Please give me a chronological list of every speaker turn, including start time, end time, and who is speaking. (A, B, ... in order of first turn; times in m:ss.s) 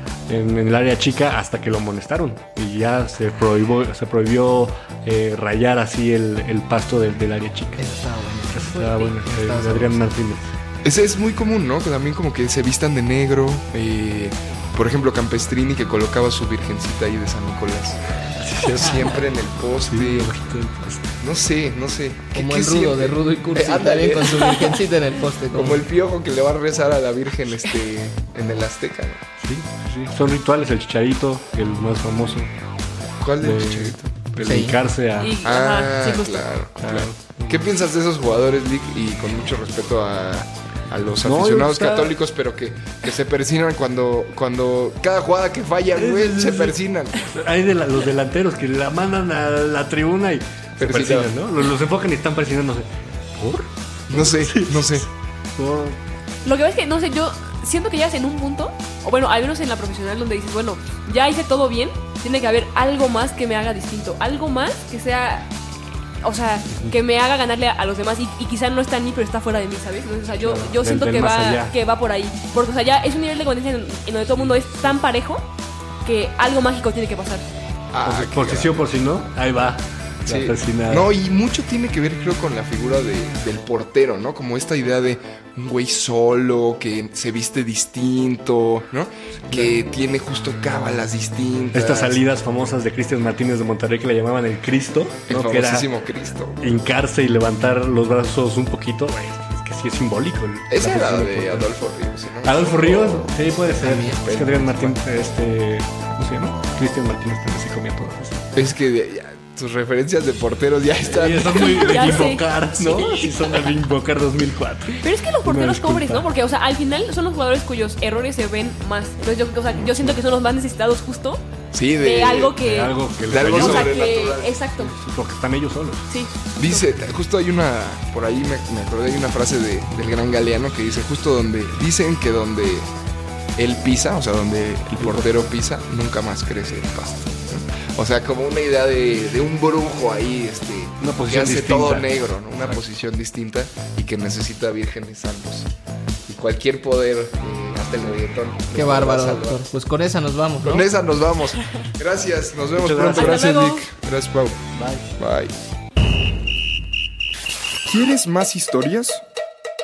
0:00.3-0:07.9 A
0:07.8-0:10.1 B
0:08.5-0:10.5 A
0:10.8-0:18.0 C
0:18.4-0:19.1 A
0:18.6-0:20.4 C
0:19.8-0:21.1 A
0:21.2-0:24.8 C
0:22.4-0:25.8 B
0:25.5-0:29.2 C
0:29.4-0:32.5 A
0:33.2-0:34.2 C
0:33.4-0:35.4 A
0:34.4-0:34.8 B
0:35.2-0:36.5 D
0:35.4-0:47.2 C
0:36.8-0:37.7 A
0:41.2-0:42.2 A
0:46.0-0:56.0 A
0:50.8-0:51.3 C
0:54.1-0:55.1 C
0:56.4-1:05.5 D
1:06.2-1:15.4 D
1:10.4-1:11.8 A
1:16.0-1:17.4 D
1:17.9-1:18.9 C
1:18.0-1:21.1 A
1:20.3-1:32.2 C
1:31.7-1:35.9 A
1:35.3-1:36.6 C
1:36.6-1:41.7 A
1:40.7-1:43.4 C
1:42.4-1:48.6 A
1:43.8-1:44.2 B
1:44.0-1:45.0 C
1:48.6-1:53.3 C
1:51.0-1:56.3 A
1:51.5-1:52.5 D
1:53.0-1:53.4 D
1:55.0-2:01.4 D
1:59.7-2:00.0 C
2:01.7-2:02.6 C
2:02.0-2:04.9 D
2:02.6-2:04.0 A
2:03.3-2:04.6 C
2:04.8-2:06.0 A
2:06.1-2:06.8 D
2:06.6-2:12.9 C
2:13.6-2:25.7 C
2:15.0-2:15.4 A
2:21.0-2:22.1 A
2:26.3-2:29.7 C
2:28.7-2:30.9 B
2:30.6-2:34.6 C
2:32.8-2:33.4 A
2:33.1-2:33.9 D
2:34.7-2:35.1 A
2:35.2-2:35.6 C
2:37.9-2:39.2 C